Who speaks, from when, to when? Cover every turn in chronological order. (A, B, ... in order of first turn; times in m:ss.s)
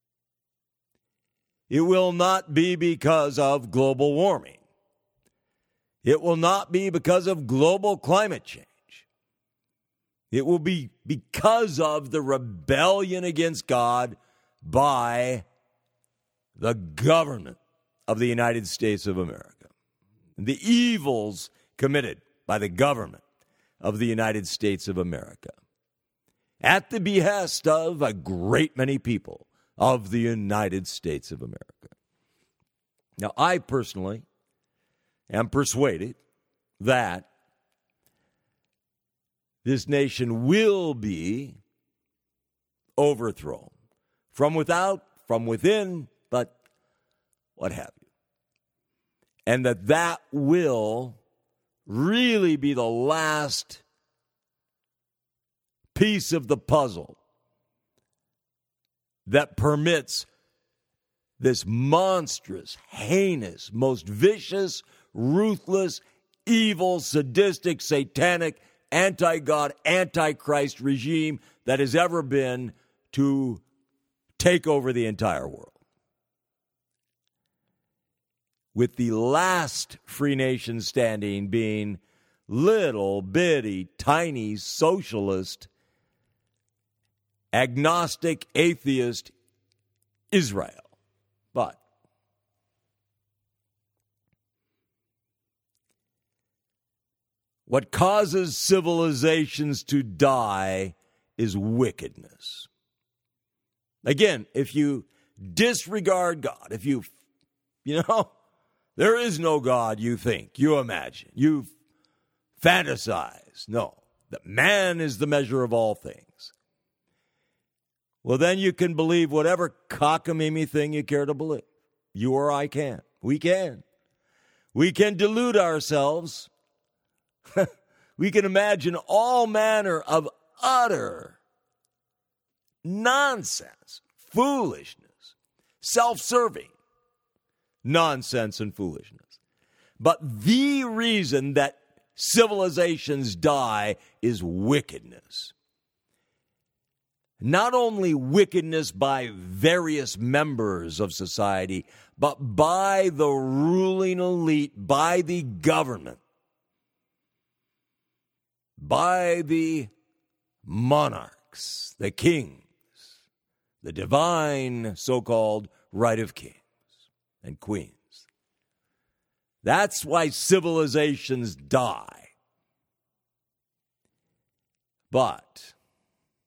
0:01.7-0:04.6 A
0:06.0-0:09.0 A
0:10.3-0:15.4 A
0:16.6-0:19.7 A
0:20.4-0:23.2 A
0:23.8-0:25.5 A
0:26.6-0:31.9 A
0:33.2-0:34.3 A
0:35.3-0:36.2 A
0:36.8-0:37.3 A
0:39.6-0:41.6 A
0:43.0-0:43.7 A
0:44.3-0:46.6 A
0:47.6-0:48.1 A
0:49.5-0:51.2 A
0:51.9-0:53.8 A
0:55.9-0:57.2 A
0:59.3-1:00.3 A
1:01.4-1:13.6 A
1:14.4-1:15.8 A
1:18.7-1:25.7 A
1:27.5-1:29.3 A
1:30.3-1:30.9 A
1:31.5-1:31.8 A
1:37.7-1:42.7 A
1:44.0-1:47.1 A
1:47.8-1:48.3 A
1:49.0-1:51.7 A
1:52.6-1:56.5 A
1:58.2-2:03.8 A
2:04.7-2:06.5 A
2:07.6-2:11.4 A
2:12.8-2:16.7 A
2:17.8-2:19.3 A
2:20.0-2:25.5 A
2:27.4-2:36.2 A
2:38.8-2:39.9 A
2:40.6-2:42.7 A
2:43.8-2:46.6 A
2:47.4-2:48.2 A
2:49.6-2:52.3 A
2:55.1-2:55.7 A